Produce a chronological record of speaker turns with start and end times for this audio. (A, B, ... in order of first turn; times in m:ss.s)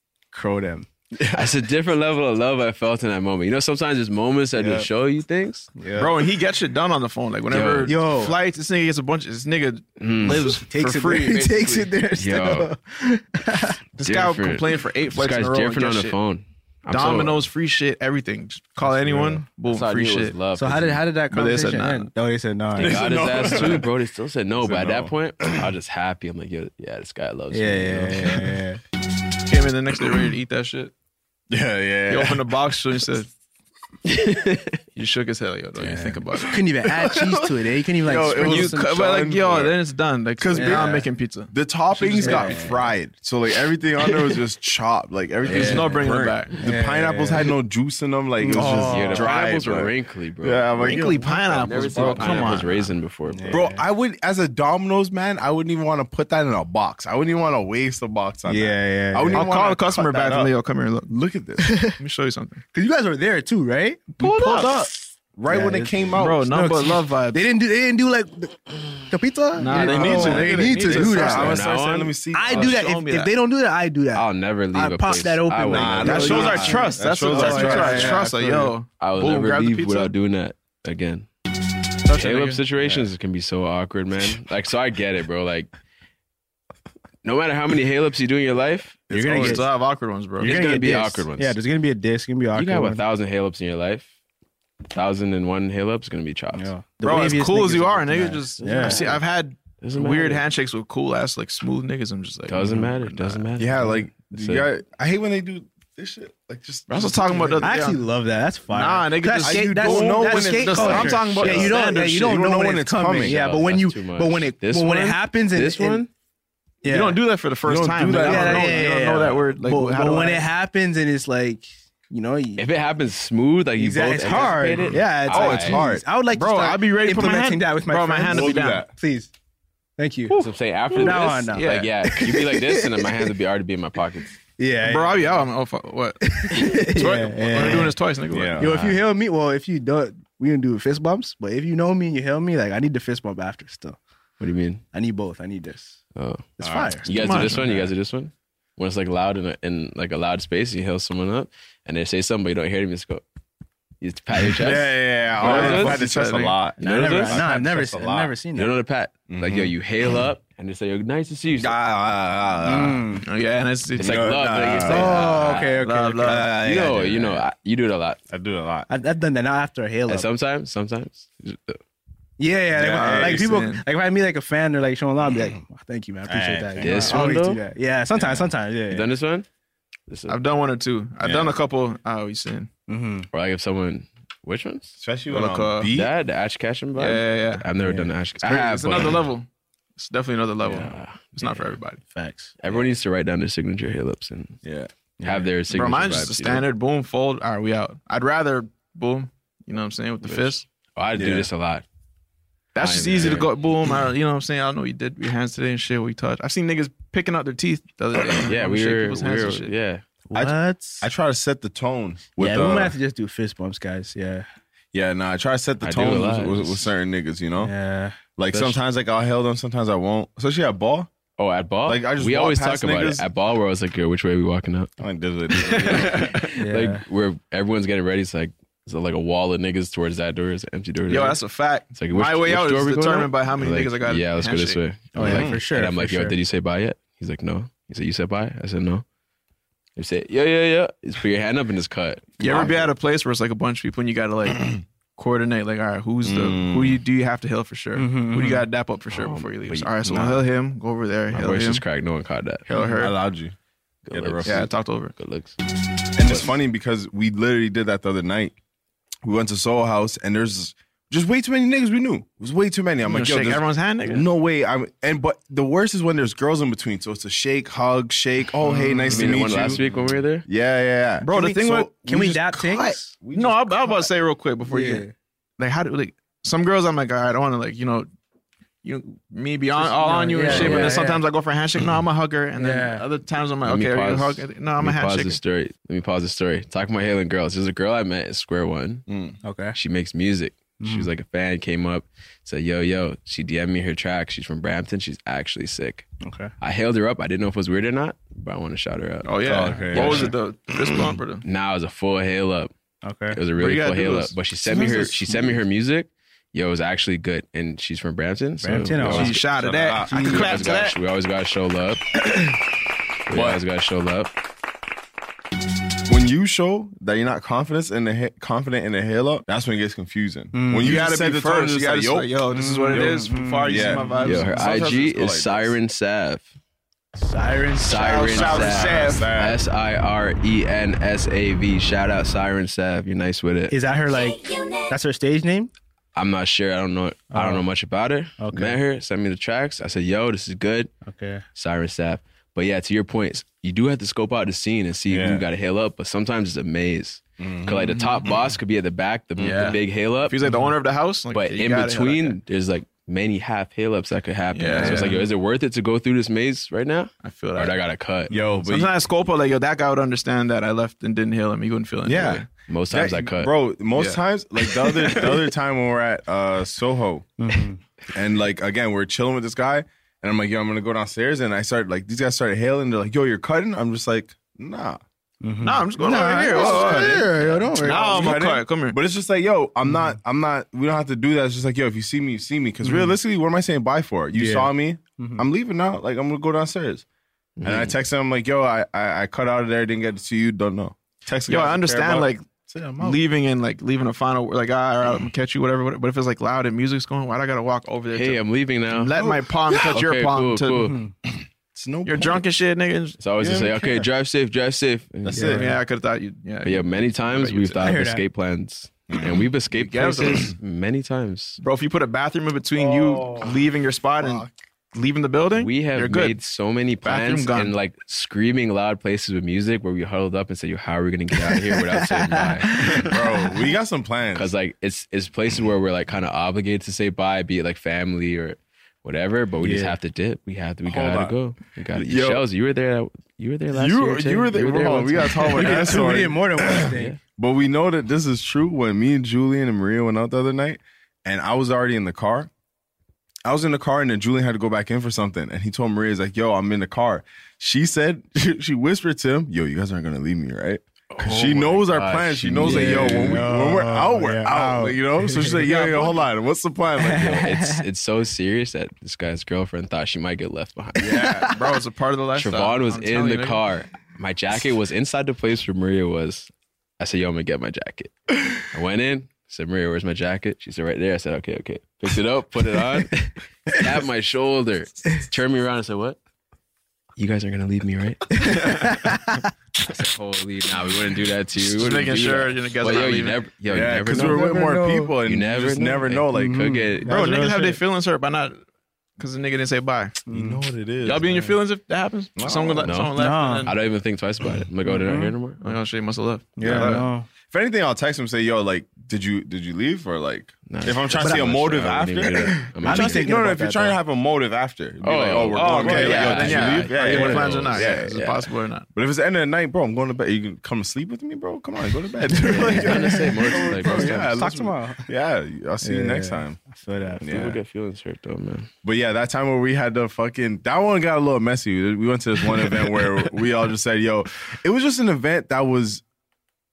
0:00.3-0:00.9 A
0:01.2-0:01.5 B
0:01.3-0:05.7 C
0:04.6-0:04.9 A
0:05.8-0:06.1 A
0:06.0-0:11.9 D
0:07.5-0:07.9 C
0:07.9-0:08.3 A
0:10.0-0:10.6 C
0:10.2-0:13.8 A
0:12.2-0:12.7 C
0:14.0-0:16.2 D
0:14.0-0:17.4 C
0:16.9-0:20.4 D
0:18.9-0:19.4 A
0:19.7-0:21.0 C
0:20.6-0:23.0 A
0:21.3-0:22.1 D
0:22.7-0:23.9 B
0:22.8-0:28.4 C
0:24.6-0:25.7 B
0:27.5-0:28.8 A
0:29.4-0:30.9 D
0:31.5-0:32.4 B
0:32.1-0:33.3 D
0:34.0-0:34.8 C
0:34.9-0:36.6 D
0:35.8-0:38.9 A
0:37.0-0:37.4 B
0:38.0-0:39.8 B
0:38.2-0:42.9 D
0:40.4-0:52.7 B
0:40.5-0:41.0 A
0:42.2-0:42.7 A
0:45.4-0:45.9 C
0:45.5-0:46.6 D
0:46.6-0:47.5 A
0:48.4-0:49.3 A
0:48.9-0:50.7 C
0:50.7-0:52.9 D
0:51.3-0:53.6 C
0:53.3-0:53.8 A
0:53.5-1:00.5 B
0:58.5-0:59.5 A
0:59.3-1:01.1 D
1:01.1-1:01.8 B
1:01.6-1:01.9 A
1:01.9-1:02.6 D
1:02.7-1:04.8 A
1:04.2-1:06.5 B
1:04.2-1:04.7 D
1:05.5-1:11.6 A
1:06.2-1:07.4 D
1:09.6-1:11.6 D
1:09.7-1:12.8 B
1:11.3-1:12.1 C
1:12.3-1:18.2 A
1:12.4-1:13.3 D
1:14.1-1:16.6 C
1:15.7-1:18.7 B
1:15.9-1:20.1 D
1:19.0-1:21.3 C
1:22.0-1:22.6 D
1:22.2-1:25.7 C
1:27.2-1:29.1 C
1:29.1-1:29.7 B
1:29.1-1:29.6 A
1:29.3-1:30.6 D
1:30.4-1:31.6 C
1:30.4-1:33.0 A
1:32.6-1:34.1 C
1:34.9-1:36.7 C
1:36.6-1:39.0 A
1:37.0-1:43.4 D
1:38.6-1:39.2 C
1:39.8-1:40.4 C
1:42.5-1:44.7 C
1:43.6-1:47.7 B
1:46.9-1:48.0 D
1:47.6-1:56.0 A
1:48.7-1:52.3 D
1:49.4-1:53.4 B
1:51.2-1:51.7 C
1:53.1-1:56.1 C
1:56.8-1:57.2 A
1:56.9-2:00.4 D
1:57.6-1:58.9 B
1:58.2-2:02.6 A
2:02.6-2:05.8 C
2:03.8-2:09.3 A
2:05.3-2:06.0 B
2:06.3-2:08.9 D
2:08.3-2:08.9 B
2:10.0-2:10.4 A
2:10.3-2:11.9 D
2:10.4-2:14.4 C
2:11.0-2:13.2 A
2:14.6-2:15.4 A
2:14.8-2:18.6 D
2:16.2-2:18.0 A
2:18.3-2:18.9 B
2:18.6-2:24.0 A
2:18.6-2:18.9 C
2:24.4-2:24.8 C
2:24.9-2:26.0 A
2:26.2-2:33.2 C
2:26.6-2:27.1 A
2:26.6-2:27.0 B
2:27.1-2:27.9 D
2:34.0-2:36.1 C
2:34.5-2:38.3 B
2:35.4-2:36.6 D
2:36.8-2:37.5 C
2:36.8-2:38.7 A
2:38.6-2:41.8 C
2:39.3-2:39.7 B
2:41.6-2:43.2 B
2:42.6-2:43.2 A
2:43.2-2:44.2 D
2:44.0-2:45.8 C
2:44.0-2:45.3 B
2:44.8-2:46.5 A
2:45.7-2:46.5 D
2:46.2-2:47.4 B
2:46.5-2:48.2 C
2:48.3-2:48.9 B
2:48.9-2:50.3 A
2:50.1-2:51.8 C
2:52.4-2:59.0 A
2:52.8-2:53.8 D
2:52.9-2:53.4 B
2:56.3-2:57.2 B
2:56.8-2:57.6 C
2:58.9-2:59.4 C
3:00.1-3:00.4 C
3:00.3-3:02.7 D
3:01.2-3:01.5 B
3:02.9-3:03.3 A
3:03.3-3:04.9 C
3:05.0-3:06.1 B
3:05.3-3:05.9 D
3:05.9-3:09.3 C
3:07.0-3:07.7 D
3:07.8-3:08.1 A
3:08.4-3:12.0 D
3:10.7-3:11.7 C
3:12.1-3:12.5 A
3:12.6-3:14.6 C
3:14.6-3:14.9 B
3:15.2-3:15.5 A
3:15.2-3:16.6 C
3:15.7-3:20.6 D
3:21.0-3:21.8 C
3:21.1-3:21.5 B
3:22.7-3:29.7 D
3:22.8-3:23.5 C
3:28.3-3:30.0 C
3:30.3-3:31.1 A
3:30.3-3:32.9 B
3:32.4-3:34.5 A
3:34.9-3:37.7 B
3:35.8-3:36.9 C
3:37.6-3:38.2 A
3:38.4-3:41.1 B
3:38.5-3:38.8 C
3:41.4-3:44.9 C
3:41.9-3:43.2 B
3:45.0-3:46.3 B
3:45.6-3:51.4 C
3:45.9-3:46.4 D
3:46.6-3:47.0 A
3:51.1-3:54.8 D
3:51.9-3:59.0 C
3:55.1-3:56.4 A
3:55.2-3:55.6 B
4:00.0-4:02.9 C
4:02.4-4:11.8 D
4:06.2-4:07.0 B
4:07.9-4:08.6 A
4:09.1-4:10.4 C
4:11.3-4:12.6 C
4:12.7-4:13.1 D
4:12.8-4:13.6 B
4:14.1-4:15.6 C
4:14.1-4:14.6 B
4:14.4-4:15.1 D
4:16.2-4:18.6 B
4:16.2-4:16.5 C
4:19.2-4:34.1 B
4:23.0-4:24.2 D
4:29.1-4:30.4 C
4:31.2-4:31.9 D
4:31.3-4:33.1 A
4:33.3-4:35.1 D
4:34.7-4:35.1 A
4:35.6-4:38.1 D
4:38.8-4:45.4 D
4:39.8-4:41.2 A
4:40.4-4:41.0 B
4:40.5-4:41.0 C
4:42.6-4:43.0 A
4:43.6-4:49.0 C
4:49.1-4:49.4 B
4:49.4-4:49.8 A
4:49.7-4:56.1 C
4:50.8-4:51.1 A
4:56.2-4:56.5 A
4:56.6-5:00.3 C
4:59.2-5:01.4 D
4:59.4-5:00.3 B
4:59.6-4:59.9 A
5:01.4-5:02.7 C
5:03.0-5:03.4 A
5:03.3-5:12.3 C
5:03.5-5:04.9 D
5:04.6-5:05.6 B
5:08.6-5:09.4 A
5:09.0-5:10.9 D
5:09.3-5:10.4 B
5:10.0-5:10.6 A
5:13.3-5:14.3 C
5:13.3-5:13.6 B
5:16.1-5:22.3 B
5:20.5-5:21.0 A
5:20.8-5:24.7 D
5:22.5-5:24.2 A
5:23.6-5:25.7 B
5:24.2-5:26.5 C
5:27.2-5:28.2 A
5:27.8-5:33.7 C
5:27.9-5:29.3 D
5:28.3-5:29.6 B
5:33.7-5:35.7 A
5:36.1-5:40.9 C
5:37.3-5:37.6 A
5:38.4-5:38.8 A
5:41.0-5:41.4 A
5:41.6-5:50.3 C
5:45.1-5:45.5 B
5:47.4-5:48.3 B
5:49.4-5:49.8 B
5:49.4-5:52.4 D
5:50.4-5:50.7 A
5:51.3-5:58.3 C
5:54.5-5:55.2 D
5:54.8-5:55.2 B
5:57.2-5:57.8 D
5:58.3-5:58.6 A
5:58.3-5:59.0 B
5:58.6-6:02.5 D
6:02.0-6:07.3 B
6:02.7-6:03.5 C
6:04.0-6:05.4 D
6:07.4-6:07.8 A
6:08.1-6:15.0 B
6:15.4-6:18.4 A
6:15.6-6:19.0 D
6:16.5-6:17.2 B
6:17.8-6:27.0 B
6:22.8-6:23.1 A
6:24.3-6:25.4 A
6:27.6-6:27.9 C
6:27.6-6:33.2 B
6:31.5-6:32.4 D
6:33.0-6:40.9 D
6:38.1-6:39.1 C
6:39.2-6:40.0 B
6:39.9-6:41.0 C
6:40.8-6:41.1 A
6:41.7-6:42.4 B
6:42.0-6:43.2 D
6:43.2-6:45.6 C
6:43.4-6:43.8 B
6:43.8-6:44.1 A
6:45.2-6:45.6 B
6:45.3-6:45.8 A
6:45.4-6:47.9 D
6:46.6-6:51.6 C
6:47.8-6:48.2 A
6:49.1-6:49.4 B
6:49.7-6:50.5 D
6:51.6-6:56.4 D
6:52.8-6:53.6 B
6:54.2-6:54.5 B
6:55.6-7:03.0 C
6:57.0-6:57.7 D
7:02.3-7:03.1 A
7:02.9-7:04.5 B
7:04.3-7:15.8 C
7:09.6-7:10.0 A
7:10.8-7:11.3 B
7:11.9-7:12.4 B
7:13.7-7:22.5 B
7:15.5-7:17.2 A
7:23.4-7:37.4 B
7:31.1-7:33.5 C
7:32.6-7:35.6 A
7:35.6-7:36.2 D
7:37.0-7:37.8 A
7:37.2-7:41.4 C
7:41.0-7:41.5 B
7:41.4-7:43.6 D
7:42.4-7:56.2 C
7:57.2-7:58.4 C
7:58.4-7:59.2 A
7:59.8-8:04.4 C
8:01.7-8:03.5 D
8:03.7-8:06.8 B
8:04.1-8:05.1 A
8:05.2-8:07.2 C
8:06.3-8:07.8 A
8:07.0-8:08.6 D
8:09.2-8:10.2 D
8:10.3-8:10.6 A
8:10.3-8:11.6 B
8:11.0-8:13.7 D
8:12.4-8:13.0 B
8:12.8-8:15.8 C
8:13.2-8:13.7 A
8:14.9-8:15.3 A
8:15.6-8:17.1 D
8:16.6-8:17.3 A
8:16.6-8:17.0 B
8:17.5-8:28.1 B
8:20.7-8:23.3 C
8:21.2-8:21.5 A
8:22.6-8:24.0 A
8:25.0-8:28.6 C
8:25.5-8:28.9 D
8:25.8-8:27.2 A
8:28.9-8:36.6 B
8:32.3-8:33.3 A
8:32.6-8:34.4 C
8:33.9-8:35.1 A
8:35.8-8:37.3 A
8:37.2-8:37.6 B
8:37.2-8:38.7 C
8:38.8-8:46.0 B